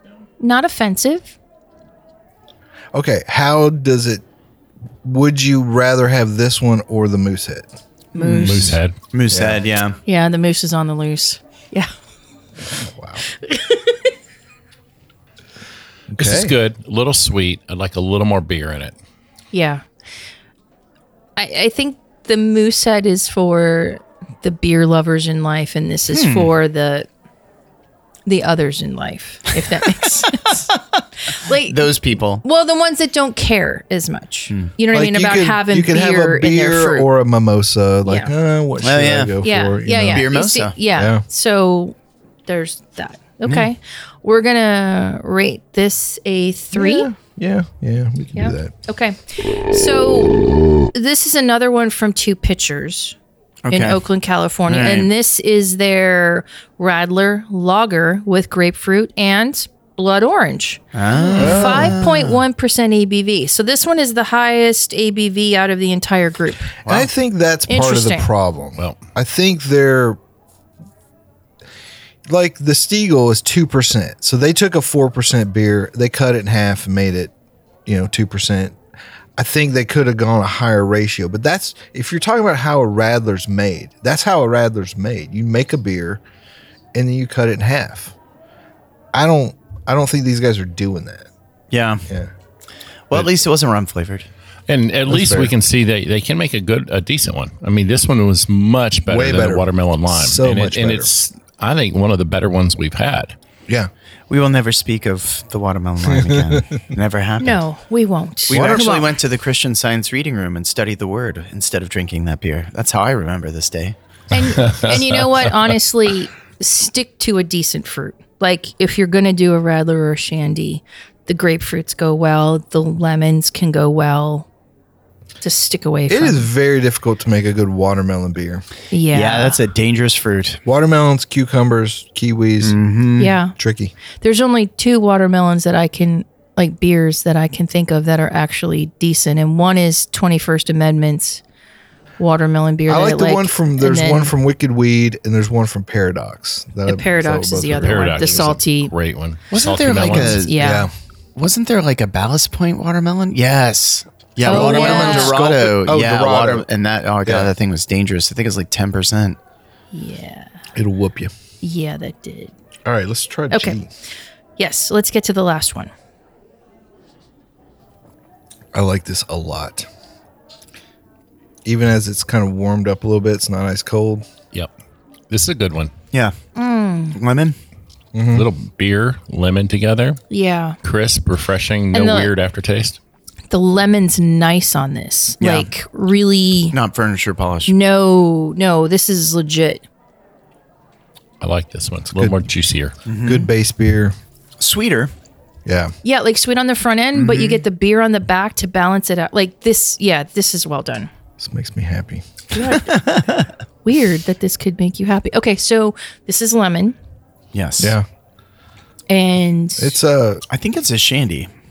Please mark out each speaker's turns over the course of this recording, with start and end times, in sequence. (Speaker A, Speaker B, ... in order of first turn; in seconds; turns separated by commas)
Speaker A: 0.4-1.3, Speaker B: 2.9-4.2, Speaker B: 5.0-7.7, Speaker A: 8.2-8.7, Speaker C: 8.2-10.0, Speaker D: 8.3-8.9, Speaker B: 8.4-8.7, Speaker B: 9.3-9.6, Speaker A: 10.1-11.9, Speaker B: 12.7-13.2, Speaker A: 13.4-14.0, Speaker B: 16.1-16.5, Speaker D: 16.2-18.9, Speaker A: 19.5-19.8, Speaker A: 21.4-27.1, Speaker C: 26.1-26.5, Speaker A: 28.2-30.6, Speaker A: 31.3-37.1, Speaker C: 31.6-32.4, Speaker B: 34.9-40.3, Speaker A: 38.0-38.3, Speaker C: 38.8-39.4, Speaker A: 39.4-41.9, Speaker C: 40.1-40.7, Speaker B: 40.9-41.2, Speaker A: 42.5-47.1, Speaker B: 46.7-48.7, Speaker A: 48.3-50.4, Speaker A: 50.9-53.1, Speaker C: 53.6-54.0, Speaker A: 53.7-66.7, Speaker C: 54.7-55.1, Speaker C: 60.9-62.4, Speaker B: 61.4-62.0, Speaker B: 66.8-70.2, Speaker A: 67.7-68.3, Speaker B: 72.3-77.3, Speaker B: 77.8-78.8, Speaker B: 79.4-86.2, Speaker B: 86.9-88.1, Speaker B: 89.1-91.3, Speaker C: 91.7-92.0, Speaker C: 93.1-94.3, Speaker D: 94.7-103.3, Speaker B: 95.1-95.5, Speaker B: 99.1-101.1, Speaker C: 104.3-107.6, Speaker B: 106.0-106.8, Speaker A: 107.4-109.1, Speaker C: 108.5-114.0, Speaker B: 108.5-109.0, Speaker A: 114.3-124.5, Speaker D: 114.5-115.5, Speaker A: 125.4-126.5, Speaker B: 126.1-128.6, Speaker A: 128.9-129.6, Speaker C: 129.1-130.6, Speaker B: 130.6-132.8, Speaker C: 132.6-133.4, Speaker A: 133.2-133.5, Speaker B: 133.6-133.9, Speaker A: 134.2-141.4, Speaker A: 142.2-144.3, Speaker B: 142.9-148.6, Speaker A: 146.8-148.9, Speaker D: 147.8-150.5, Speaker C: 149.5-150.6, Speaker A: 150.2-150.9, Speaker B: 150.6-150.9, Speaker C: 151.3-159.4, Speaker B: 154.4-156.7, Speaker A: 154.4-155.3, Speaker B: 157.2-157.5, Speaker A: 159.9-160.5, Speaker B: 160.7-161.3, Speaker A: 161.6-162.5, Speaker B: 162.8-163.9, Speaker A: 163.5-163.8, Speaker A: 164.6-165.9, Speaker B: 168.7-169.9, Speaker B: 171.6-174.2, Speaker D: 175.3-175.9, Speaker A: 176.5-177.2, Speaker C: 177.1-177.6, Speaker B: 178.1-178.5, Speaker D: 178.3-180.2, Speaker A: 180.3-180.8, Speaker D: 180.8-183.0, Speaker A: 181.9-182.3, Speaker A: 183.5-186.7, Speaker C: 185.4-185.7, Speaker C: 186.7-187.7, Speaker A: 187.7-189.8, Speaker D: 191.4-192.9, Speaker C: 193.1-193.5, Speaker B: 193.2-194.2, Speaker C: 194.6-195.1, Speaker B: 195.6-195.9, Speaker A: 196.0-201.1, Speaker C: 197.1-197.6, Speaker B: 201.4-202.2, Speaker A: 202.5-202.9, Speaker C: 202.7-203.5, Speaker A: 203.8-206.9, Speaker C: 207.5-207.9, Speaker B: 207.8-208.1, Speaker A: 209.1-210.0, Speaker B: 209.8-210.4, Speaker C: 210.5-211.5